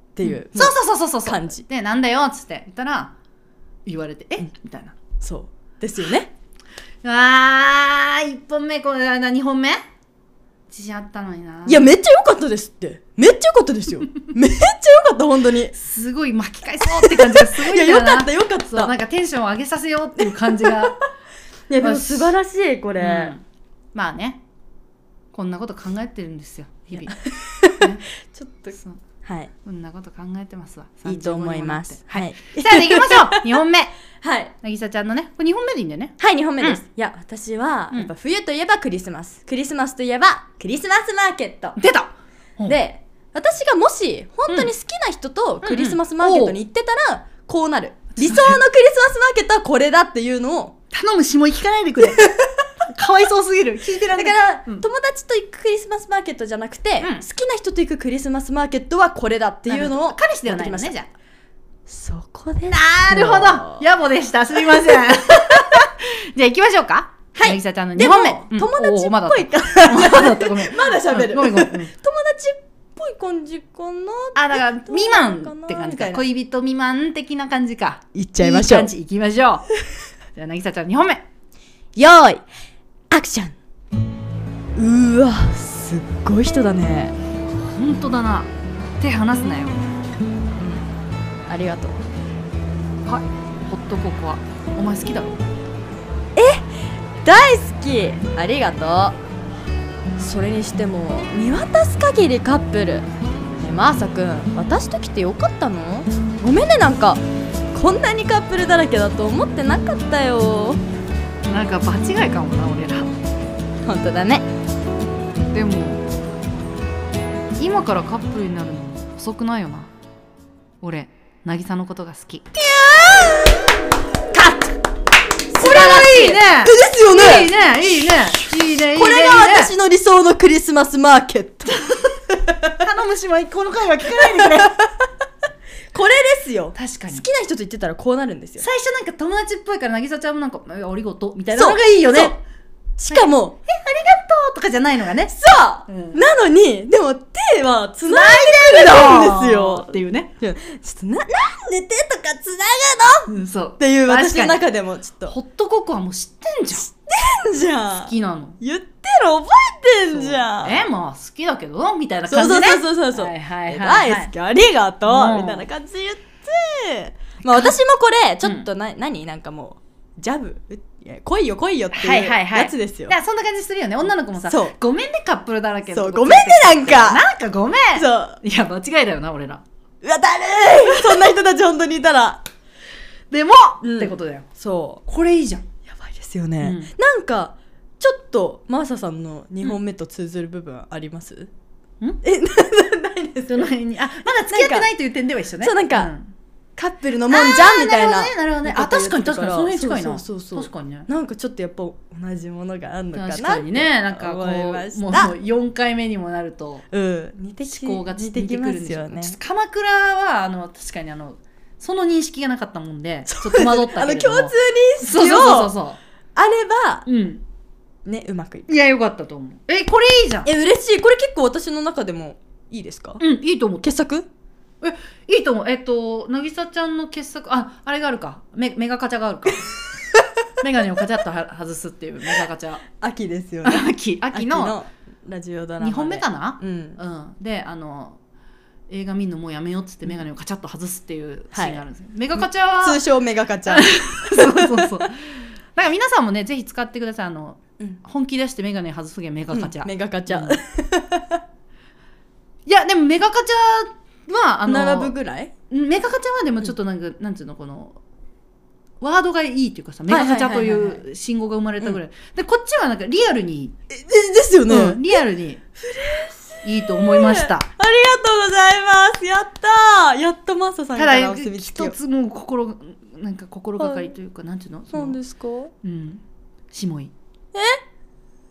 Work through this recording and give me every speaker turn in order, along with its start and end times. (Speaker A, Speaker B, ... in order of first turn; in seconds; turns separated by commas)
Speaker A: 0.1-1.6, Speaker B: 0.2-3.1, Speaker B: 3.9-5.0, Speaker A: 5.2-6.3, Speaker B: 7.0-9.8, Speaker B: 10.7-11.9, Speaker A: 11.7-15.7, Speaker B: 15.7-21.0, Speaker A: 16.8-18.9, Speaker A: 20.6-20.9, Speaker A: 21.7-23.3, Speaker B: 21.8-22.3, Speaker B: 23.0-23.4, Speaker B: 23.9-24.4, Speaker B: 25.3-27.2, Speaker A: 26.9-29.5, Speaker B: 27.7-28.1, Speaker B: 29.6-33.9, Speaker A: 31.1-33.6, Speaker A: 34.2-34.5, Speaker B: 34.6-36.8, Speaker A: 36.2-41.8, Speaker B: 41.8-42.8, Speaker A: 42.7-50.8, Speaker B: 45.6-46.6, Speaker B: 48.1-48.6, Speaker B: 50.9-52.3, Speaker A: 52.2-52.5, Speaker B: 52.9-54.9, Speaker A: 54.1-60.9, Speaker B: 57.0-57.2, Speaker B: 59.7-61.1, Speaker A: 61.9-63.8, Speaker B: 62.7-71.9, Speaker A: 67.4-76.2, Speaker B: 74.3-79.7, Speaker A: 78.1-78.9, Speaker B: 80.3-81.2, Speaker A: 82.0-82.4, Speaker A: 83.1-83.6, Speaker A: 84.8-87.2, Speaker B: 87.7-89.8, Speaker A: 91.5-92.0, Speaker B: 93.0-95.4, Speaker A: 96.4-96.7, Speaker A: 97.2-99.2, Speaker A: 100.2-110.8, Speaker B: 111.5-113.2, Speaker A: 113.8-114.5, Speaker B: 115.5-116.0, Speaker B: 117.6-119.9, Speaker B: 120.8-122.5, Speaker A: 122.6-123.6, Speaker A: 124.3-124.7, Speaker A: 125.5-127.5, Speaker B: 125.6-129.7, Speaker A: 128.9-131.8, Speaker B: 131.8-132.1, Speaker A: 132.3-132.7, Speaker B: 132.8-134.7, Speaker A: 134.2-135.1, Speaker A: 135.9-138.6, Speaker B: 136.7-137.2, Speaker B: 138.6-142.4, Speaker A: 141.5-142.4, Speaker A: 143.0-143.6, Speaker B: 143.1-145.3, Speaker A: 145.3-155.3, Speaker B: 145.9-146.2, Speaker B: 148.1-150.3, Speaker B: 153.3-154.6, Speaker B: 155.3-156.9, Speaker A: 156.8-160.9, Speaker B: 158.0-158.6, Speaker B: 160.1-164.3, Speaker A: 162.3-173.1, Speaker B: 165.1-165.7, Speaker B: 167.5-167.7, Speaker B: 171.9-179.6, Speaker A: 174.4-174.7, Speaker A: 175.9-177.2, Speaker A: 177.9-178.4, Speaker A: 180.0-182.4, Speaker B: 183.3-184.5, Speaker A: 183.8-185.0, Speaker B: 185.1-185.6, Speaker A: 185.8-191.5, Speaker B: 186.6-186.9, Speaker A: 192.2-193.7, Speaker B: 193.4-196.3, Speaker A: 194.5-194.9, Speaker A: 195.6-196.1, Speaker A: 196.8-205.3, Speaker B: 197.3-201.1, Speaker B: 203.1-206.8, Speaker A: 206.9-209.4, Speaker B: 207.6-216.0, Speaker A: 213.3-215.7, Speaker A: 216.3-217.1, Speaker B: 217.1-217.4, Speaker A: 218.1-218.7, Speaker B: 218.7-220.5, Speaker A: 220.4-223.2, Speaker B: 223.2-223.9, Speaker A: 223.8-224.3, Speaker B: 224.8-229.7, Speaker B: 230.6-232.8, Speaker A: 233.0-237.0, Speaker B: 233.6-234.8, Speaker B: 235.8-238.2, Speaker B: 238.9-243.0, Speaker A: 241.5-241.8, Speaker A: 242.4-244.9, Speaker B: 243.7-250.6, Speaker A: 249.5-251.4, Speaker B: 252.7-255.1, Speaker A: 254.7-255.5, Speaker B: 255.7-258.0, Speaker B: 259.0-263.8, Speaker A: 260.1-261.0, Speaker A: 263.9-265.2, Speaker B: 264.7-265.6, Speaker A: 265.8-271.9, Speaker B: 266.6-267.7, Speaker B: 270.9-275.2, Speaker A: 273.8-274.1, Speaker A: 274.9-275.7, Speaker B: 275.8-277.1, Speaker A: 277.5-277.8